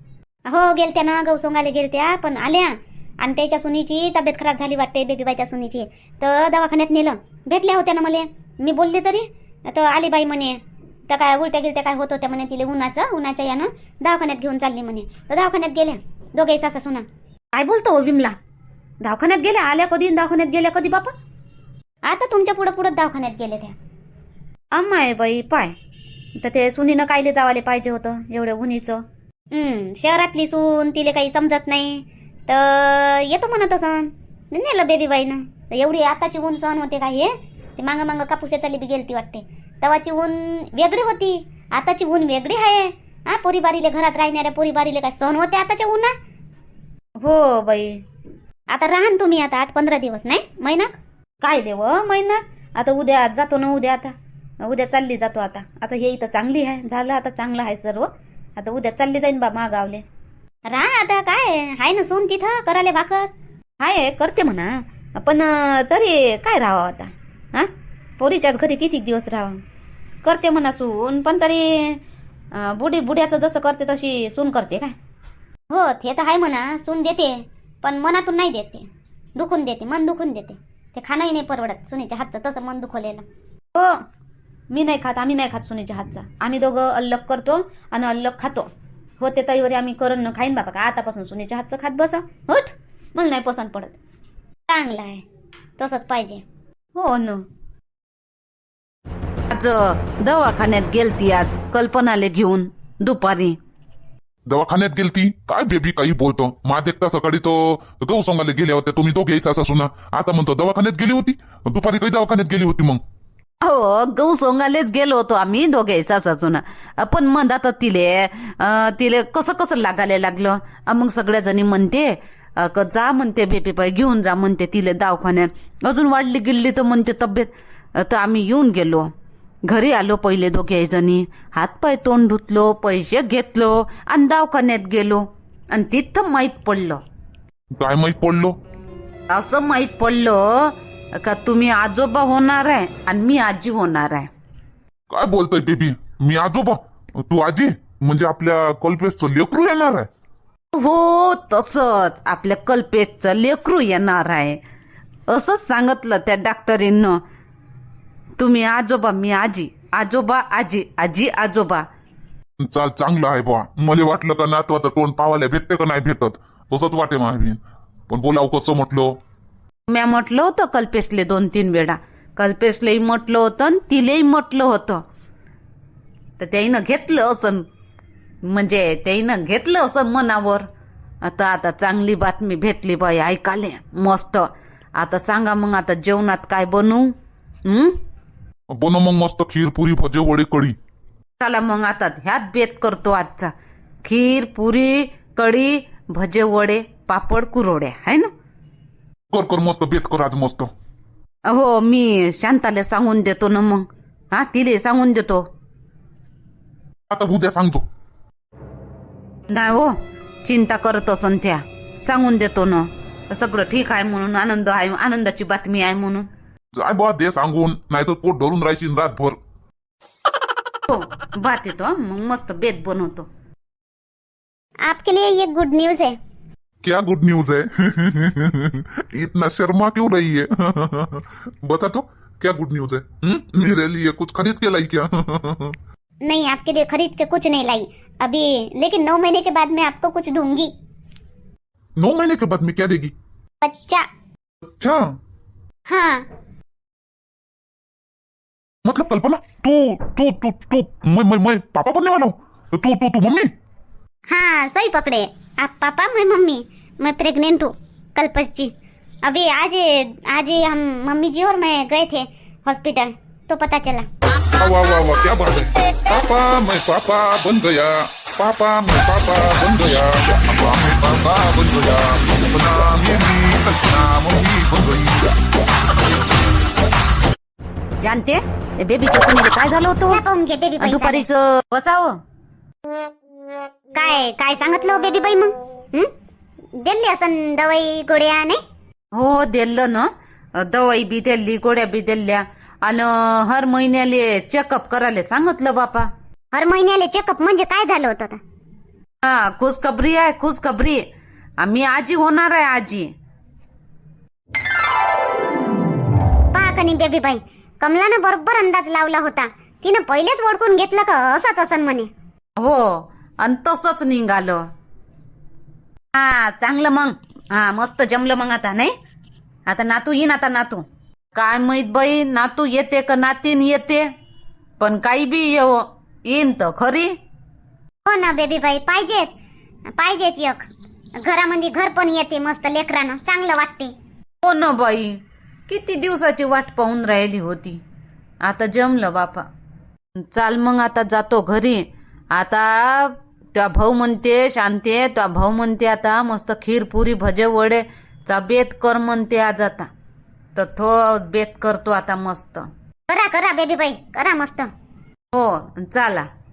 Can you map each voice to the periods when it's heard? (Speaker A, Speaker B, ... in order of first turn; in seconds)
Speaker A: 0.5-10.6, 11.1-17.1, 22.1-23.8, 29.5-46.1, 48.7-51.0, 60.7-63.3, 75.7-83.2, 94.7-95.2, 95.8-96.4, 224.9-226.2, 236.2-240.7, 243.6-244.1, 245.9-246.3, 254.3-258.7, 259.2-264.1, 280.1-281.3, 283.9-286.1, 286.8-288.6, 296.5-298.4, 306.5-312.1, 328.1-329.3, 330.0-330.7, 331.2-333.9, 353.1-354.7
Speaker B: 17.5-18.4, 19.0-21.1, 24.7-25.7, 26.4-29.0, 47.2-48.0, 51.4-60.0, 63.8-69.6, 70.2-72.0, 72.5-74.9, 83.8-84.0, 84.7-88.7, 89.2-94.0, 97.0-97.4, 99.5-103.6, 113.6-129.1, 129.7-137.0, 139.3-144.3, 150.7-154.6, 155.3-157.2, 158.4-161.8, 169.9-175.0, 176.4-177.7, 178.4-180.7, 181.2-187.1, 187.7-188.0, 191.4-193.5, 194.0-198.3, 201.5-205.4, 209.5-216.3, 220.9-223.3, 278.0-280.2, 280.8-282.2, 289.1-296.1, 299.2-301.1, 301.6-303.1, 312.6-314.7, 316.1-318.9, 319.7-324.1, 324.8-327.2, 334.4-337.8, 338.4-339.5, 340.2-349.9, 350.6-352.7, 355.3-356.3
Speaker C: 104.5-113.0, 137.7-138.6, 145.1-150.1, 162.6-169.1, 188.7-190.8, 199.3-200.7, 207.1-207.8, 216.8-219.4, 226.8-235.8, 242.0-243.1, 244.8-245.1, 248.8-253.5, 264.4-275.3